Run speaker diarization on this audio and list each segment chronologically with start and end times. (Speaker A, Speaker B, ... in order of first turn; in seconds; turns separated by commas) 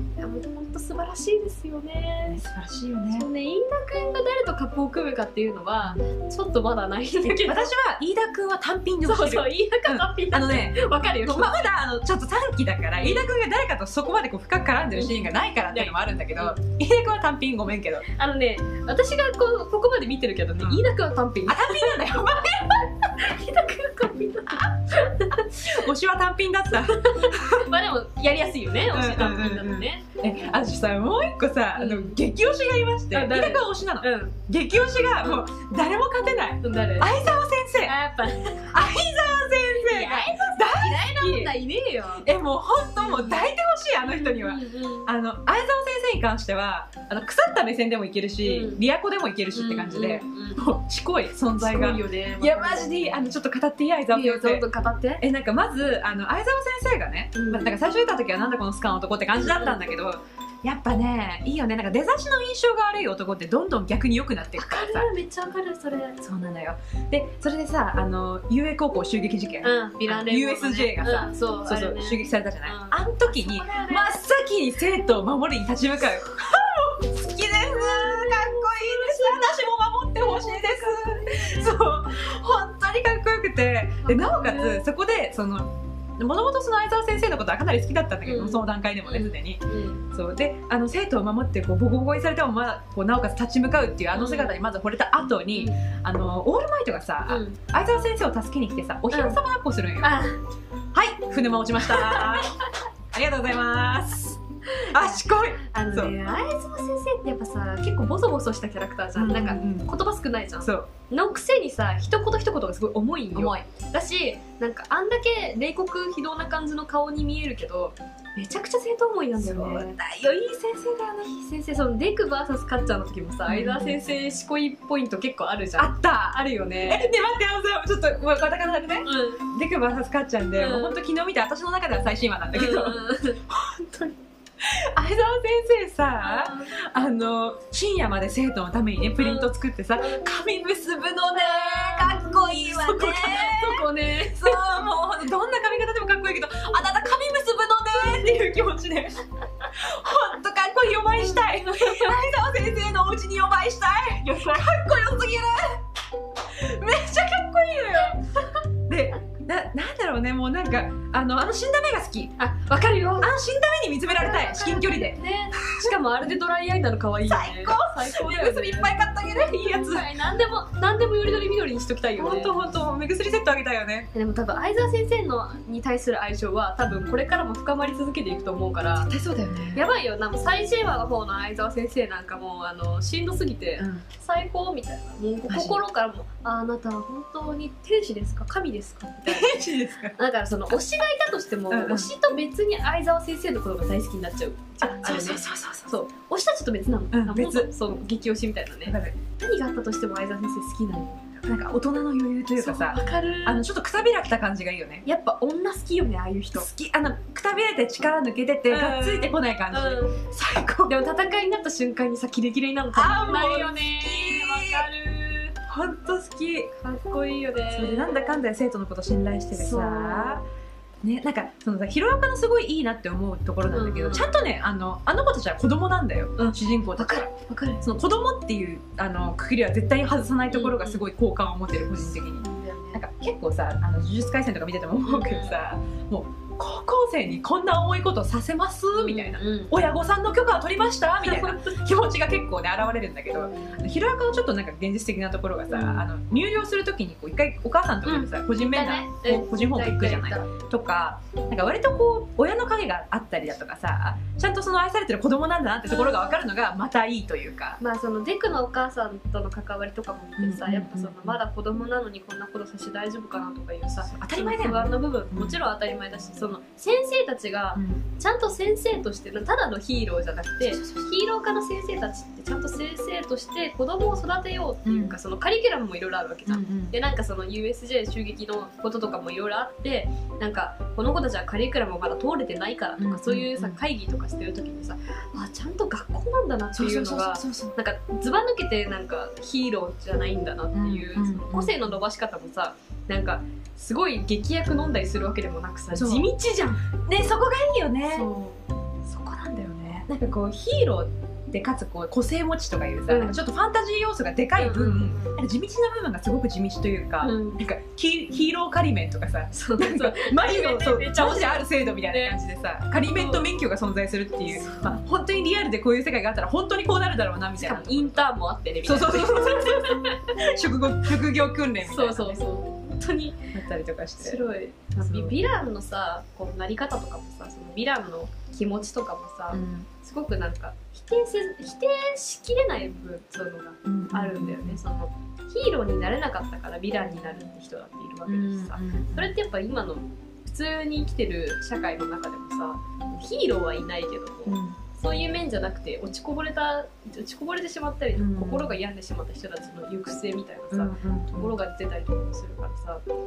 Speaker A: 0.2-2.4, Speaker B: 2.3-3.3, Speaker A: 3.1-7.7, Speaker B: 7.3-18.1, Speaker A: 9.1-11.7, Speaker A: 12.9-13.3, Speaker A: 14.9-16.6, Speaker A: 18.1-25.8, Speaker B: 21.5-22.9, Speaker B: 24.6-27.7, Speaker A: 26.8-30.1, Speaker B: 28.9-37.9, Speaker A: 31.8-32.2, Speaker A: 33.1-34.4, Speaker A: 35.2-35.5, Speaker A: 36.6-37.2, Speaker A: 37.8-38.8, Speaker B: 38.7-41.5, Speaker A: 39.8-42.3, Speaker B: 42.2-54.6, Speaker A: 43.0-43.5, Speaker A: 44.0-45.1, Speaker A: 48.4-48.8, Speaker A: 49.5-50.7, Speaker A: 51.6-53.2, Speaker A: 54.1-55.2, Speaker B: 55.2-65.1, Speaker A: 57.4-57.7, Speaker A: 59.4-59.8, Speaker A: 64.6-66.2, Speaker B: 66.2-100.2, Speaker A: 69.6-74.2, Speaker A: 77.9-81.8, Speaker A: 84.0-84.8, Speaker A: 88.2-90.1, Speaker A: 94.1-94.6, Speaker A: 97.3-97.6, Speaker A: 99.1-99.4, Speaker A: 100.0-100.4, Speaker B: 100.9-106.1, Speaker A: 101.8-102.6, Speaker A: 104.7-119.9, Speaker B: 109.2-109.9, Speaker B: 110.6-110.9, Speaker B: 119.4-121.4, Speaker A: 121.2-127.1, Speaker B: 123.5-124.1, Speaker B: 125.8-149.2, Speaker A: 129.0-129.5, Speaker A: 130.6-131.0, Speaker A: 132.5-133.4, Speaker A: 136.2-136.7, Speaker A: 139.2-140.2, Speaker A: 141.3-144.6, Speaker B: 149.7-155.8, Speaker A: 151.2-152.2, Speaker A: 154.4-154.7, Speaker B: 156.4-158.2, Speaker A: 157.9-158.2, Speaker B: 158.9-162.3, Speaker A: 162.4-163.4, Speaker B: 163.2-165.9, Speaker A: 164.1-172.6, Speaker B: 167.2-170.1, Speaker B: 172.2-174.1, Speaker A: 174.1-179.1, Speaker B: 179.0-179.9, Speaker A: 179.7-189.6, Speaker B: 183.8-184.1, Speaker B: 185.5-185.8, Speaker B: 189.3-190.2, Speaker A: 190.2-201.5, Speaker B: 191.7-192.1, Speaker B: 194.8-195.9, Speaker B: 197.1-197.7, Speaker B: 198.8-199.2, Speaker B: 201.4-205.0, Speaker A: 202.6-203.6, Speaker A: 205.0-206.7, Speaker B: 206.5-210.9, Speaker A: 208.7-210.2, Speaker A: 210.8-215.6, Speaker B: 212.9-214.9, Speaker B: 215.7-216.7, Speaker A: 216.8-218.4, Speaker B: 217.7-220.4, Speaker A: 219.5-220.4, Speaker B: 221.0-257.8, Speaker A: 223.7-224.4, Speaker A: 226.4-227.8, Speaker A: 230.5-231.1, Speaker A: 232.1-233.0, Speaker A: 235.0-235.6, Speaker A: 238.9-239.7, Speaker A: 241.2-241.8, Speaker A: 245.7-246.1, Speaker A: 248.1-250.5, Speaker A: 255.9-256.3, Speaker A: 257.8-296.8, Speaker B: 260.4-261.4, Speaker B: 264.1-265.6, Speaker B: 267.8-268.0, Speaker B: 270.6-271.1, Speaker B: 274.9-275.2, Speaker B: 276.5-276.9, Speaker B: 283.0-283.8, Speaker B: 286.7-287.8, Speaker B: 290.7-292.0, Speaker B: 295.9-296.3, Speaker B: 297.1-298.3, Speaker A: 298.1-300.1, Speaker B: 299.9-318.3, Speaker A: 303.1-303.4, Speaker A: 304.6-305.4, Speaker A: 307.2-307.6, Speaker A: 309.5-312.4, Speaker A: 313.1-313.4, Speaker A: 314.5-315.0, Speaker A: 317.6-320.4, Speaker B: 318.9-322.4, Speaker A: 321.8-323.5, Speaker B: 323.5-324.4, Speaker A: 324.2-353.0, Speaker B: 325.0-325.4, Speaker B: 329.5-329.9, Speaker B: 333.9-334.8, Speaker B: 338.3-339.3, Speaker B: 344.5-344.8, Speaker B: 348.2-348.8, Speaker B: 350.7-351.6